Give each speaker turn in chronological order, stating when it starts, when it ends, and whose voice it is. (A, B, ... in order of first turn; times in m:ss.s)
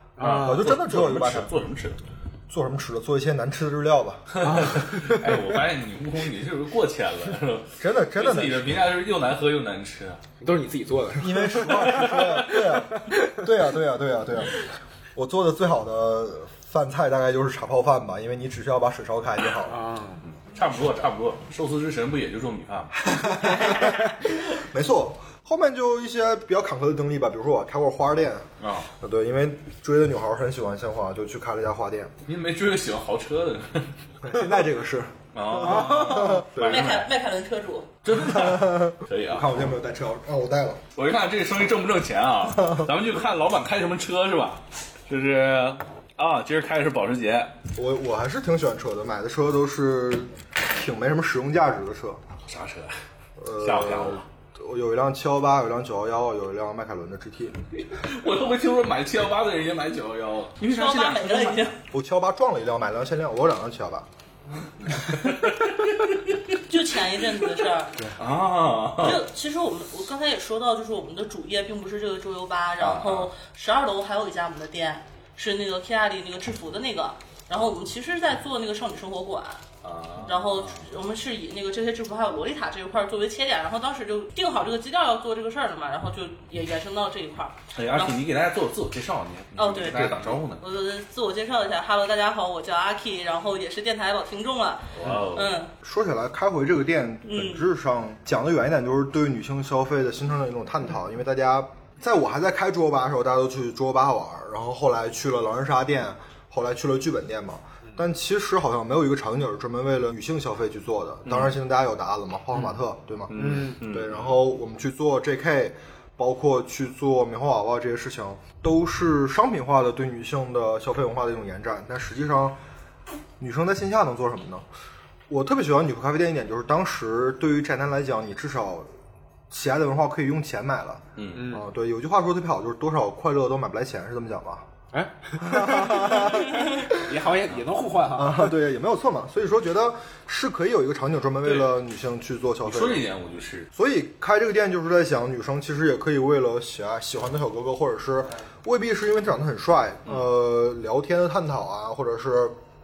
0:00.2-0:00.7 A
0:00.2-0:02.0 B
0:00.4-0:01.5 C
0:02.5-0:04.6 C
0:04.3-0:10.2 B
0:04.4-0:05.4 A
0:07.8-0:08.8 C
0:10.4-0:13.4 A
0:11.2-0:19.8 C
0:11.7-0:12.3 B
0:19.7-0:20.2 A
0:20.4-0:23.1 B
0:23.0-0:28.5 C
0:28.6-0:28.9 B
0:29.0-0:32.1 C
0:32.3-0:33.9 B
0:34.2-0:36.8 C
0:35.3-0:37.1 B
0:35.6-0:36.4 A
0:36.6-0:37.9 D
0:38.0-0:39.6 B
0:38.1-0:40.8 C
0:41.0-0:47.6 B
0:47.8-0:52.2 C
0:52.5-0:52.9 B
0:53.4-0:57.6 C
0:53.6-0:54.2 B
0:57.9-1:01.7 B
1:00.6-1:01.8 D
1:01.9-1:04.1 C
1:04.8-1:06.3 B
1:06.7-1:08.1 D
1:08.1-1:09.2 B
1:09.0-1:19.6 D
1:12.8-1:13.3 B
1:19.8-1:20.8 B
1:20.2-1:28.2 D
1:27.8-1:30.6 B
1:29.6-1:35.7 D
1:35.0-1:35.6 B
1:35.8-2:02.6 C
1:37.2-1:37.6 D
1:51.2-1:51.6 B
1:53.3-1:54.4 B
1:53.4-1:53.8 A
2:03.4-2:04.6 C
2:05.3-2:08.9 C
2:09.5-2:14.7 C
2:11.2-2:11.6 B
2:11.3-2:11.6 A
2:14.9-2:18.6 A
2:15.4-2:17.2 C
2:18.1-2:23.1 C
2:21.4-2:21.8 B
2:22.6-2:23.7 B
2:23.7-2:32.6 C